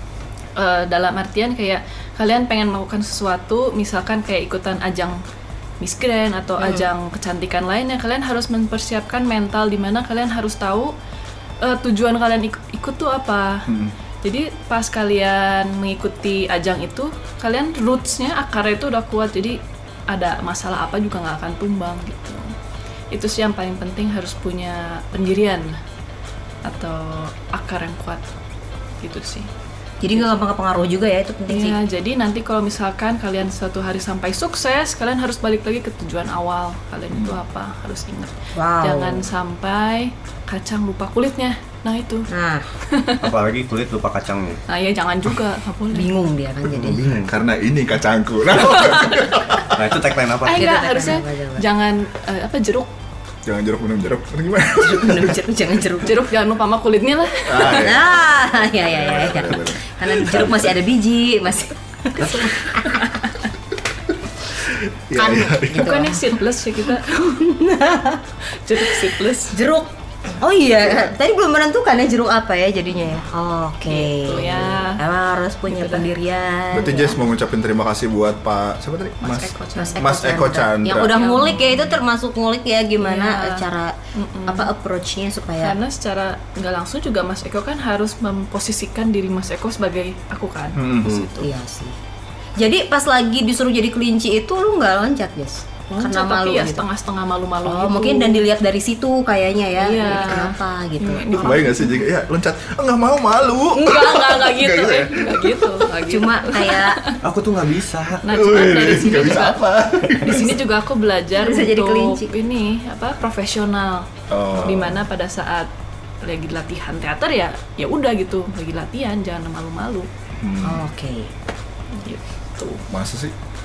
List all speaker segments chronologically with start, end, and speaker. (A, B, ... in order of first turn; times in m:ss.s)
0:00.6-0:05.2 A
0:05.8-0:10.9 A
0:06.6-0:06.9 B
0:11.6-0:13.7 A
0:13.7-0:13.9 C
0:14.2-0:22.5 A
0:23.1-0:25.8 A
0:26.6-0:28.2 A
0:29.0-0:29.5 A
0:30.0-0:31.8 B
0:31.5-0:42.3 A
0:38.5-0:39.3 B
0:42.3-0:42.6 B
0:42.9-0:43.2 A
0:43.2-0:44.6 D
0:44.7-0:46.1 A
0:45.9-0:47.0 B
0:46.7-0:47.3 D
0:47.1-0:49.8 C
0:48.7-0:49.0 A
0:49.6-0:50.8 D
0:50.4-0:52.9 A
0:50.4-0:51.6 B
0:53.4-0:55.4 C
0:54.8-0:56.2 B
0:56.0-0:58.0 A
0:57.4-1:00.7 C
0:57.6-1:03.0 B
1:02.2-1:03.3 A
1:04.6-1:06.0 C
1:05.1-1:06.2 B
1:05.7-1:07.3 A
1:07.0-1:08.2 B
1:08.6-1:09.5 A
1:08.8-1:17.2 B
1:13.8-1:15.0 A
1:15.6-1:16.0 A
1:16.7-1:21.4 C
1:19.2-1:20.1 A
1:19.8-1:25.8 B
1:21.0-1:22.0 A
1:23.0-1:24.7 A
1:25.6-1:31.5 A
1:30.7-1:31.2 C
1:31.4-1:31.9 B
1:32.6-1:36.8 B
1:35.9-1:38.5 A
1:37.6-1:41.4 B
1:39.8-1:42.1 A
1:41.3-1:45.8 C
1:43.7-1:47.2 A
1:46.0-1:47.0 B
1:47.2-1:48.2 D
1:48.2-1:49.6 A
1:48.2-1:50.6 C
1:50.2-1:55.7 A
1:51.4-1:52.3 B
1:54.3-1:55.0 C
1:56.2-2:00.1 A
2:00.4-2:00.8 C
2:00.6-2:01.3 B
2:01.9-2:02.8 A
2:02.9-2:03.3 C